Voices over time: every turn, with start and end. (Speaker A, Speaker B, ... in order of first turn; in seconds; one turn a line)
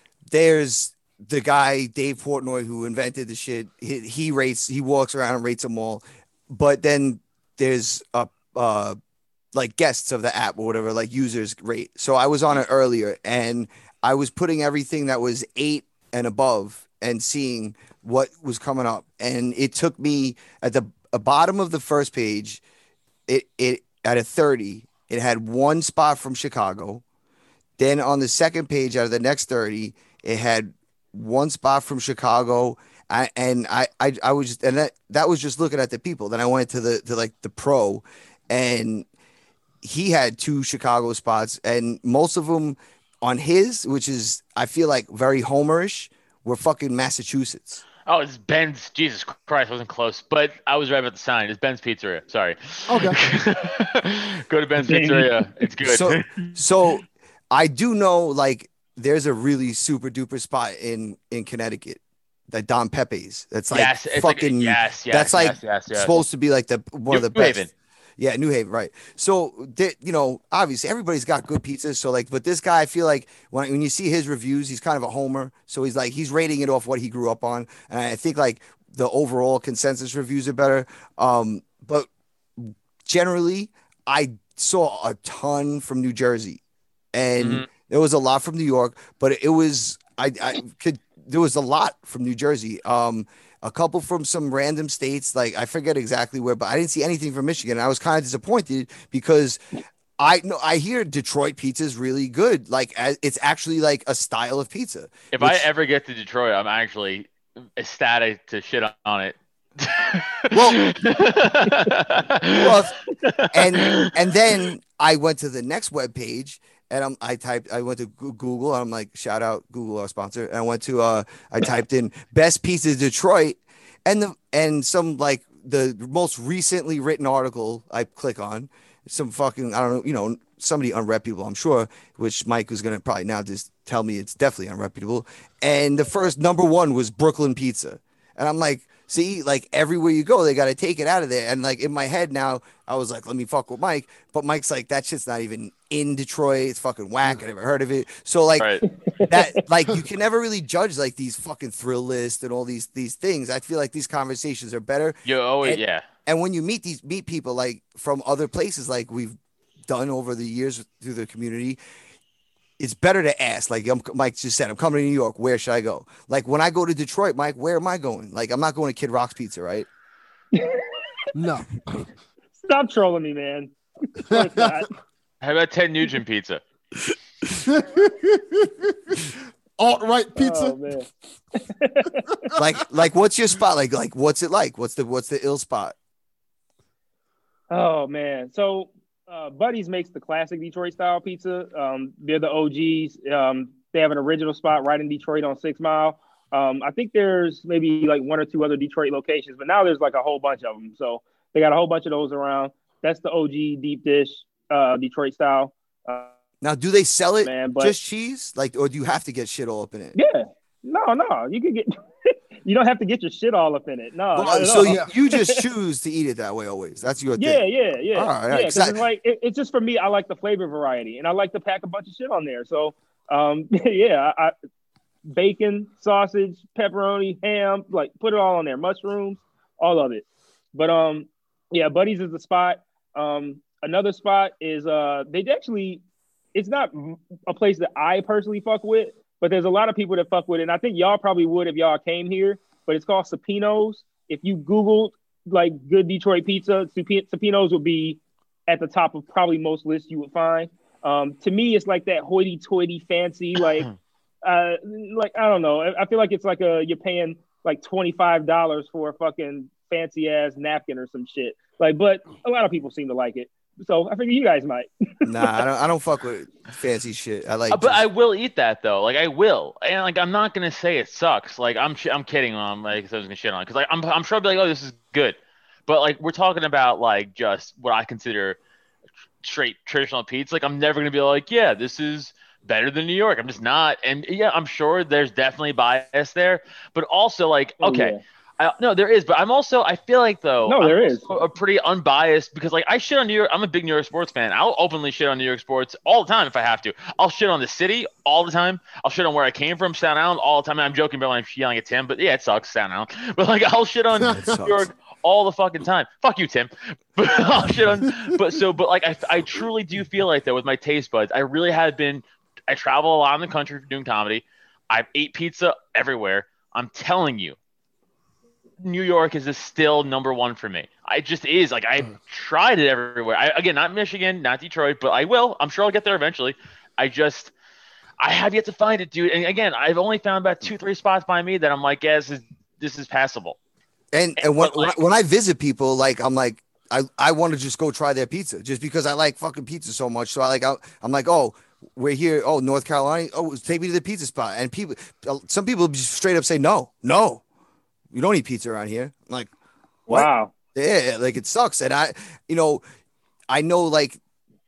Speaker A: 0.3-9.0
Speaker A: 9.5-22.6
Speaker A: 23.3-27.0
Speaker A: 27.8-39.0
Speaker A: 39.8-47.8
Speaker B: 48.0-56.3
Speaker C: 52.9-53.2
Speaker D: 54.8-55.5
Speaker A: 55.8-67.7
Speaker B: 63.7-66.2
Speaker B: 67.1-67.7
Speaker A: 68.2-86.6
Speaker A: 87.1-99.6
Speaker B: 87.4-87.7
Speaker A: 100.2-105.7
Speaker B: 105.3-114.3
Speaker A: 110.5-110.8
Speaker A: 112.5-113.0
Speaker A: 113.5-161.8
Speaker D: 149.2-149.6
Speaker B: 155.2-156.0
Speaker A: 162.8-169.9
Speaker D: 170.5-171.0
Speaker C: 171.3-172.1
Speaker D: 172.6-174.9
Speaker C: 174.3-174.8
Speaker B: 175.4-176.6
Speaker C: 177.5-180.8
Speaker D: 180.4-181.1
Speaker D: 181.7-182.5
Speaker A: 182.5-185.9
Speaker D: 187.7-206.3
Speaker A: 206.6-210.1
Speaker D: 207.4-207.9
Speaker D: 210.1-215.6
Speaker A: 214.3-219.0
Speaker C: 214.8-215.1
Speaker D: 217.4-224.5
Speaker D: 225.2-236.0
Speaker D: 236.5-253.9
Speaker D: 254.4-265.5
Speaker A: 265.2-268.0
Speaker B: 267.7-278.6
Speaker B: 279.4-317.6
Speaker D: 287.8-288.2
Speaker D: 290.6-291.4
Speaker C: 304.2-304.6
Speaker A: 304.5-304.7
Speaker B: 318.8-327.5
Speaker B: 328.2-333.6
Speaker A: 334.1-347.4
Speaker B: 334.4-334.9
Speaker A: 348.1-349.5
Speaker D: 350.1-350.5
Speaker A: 350.1-352.8
Speaker A: 353.5-354.2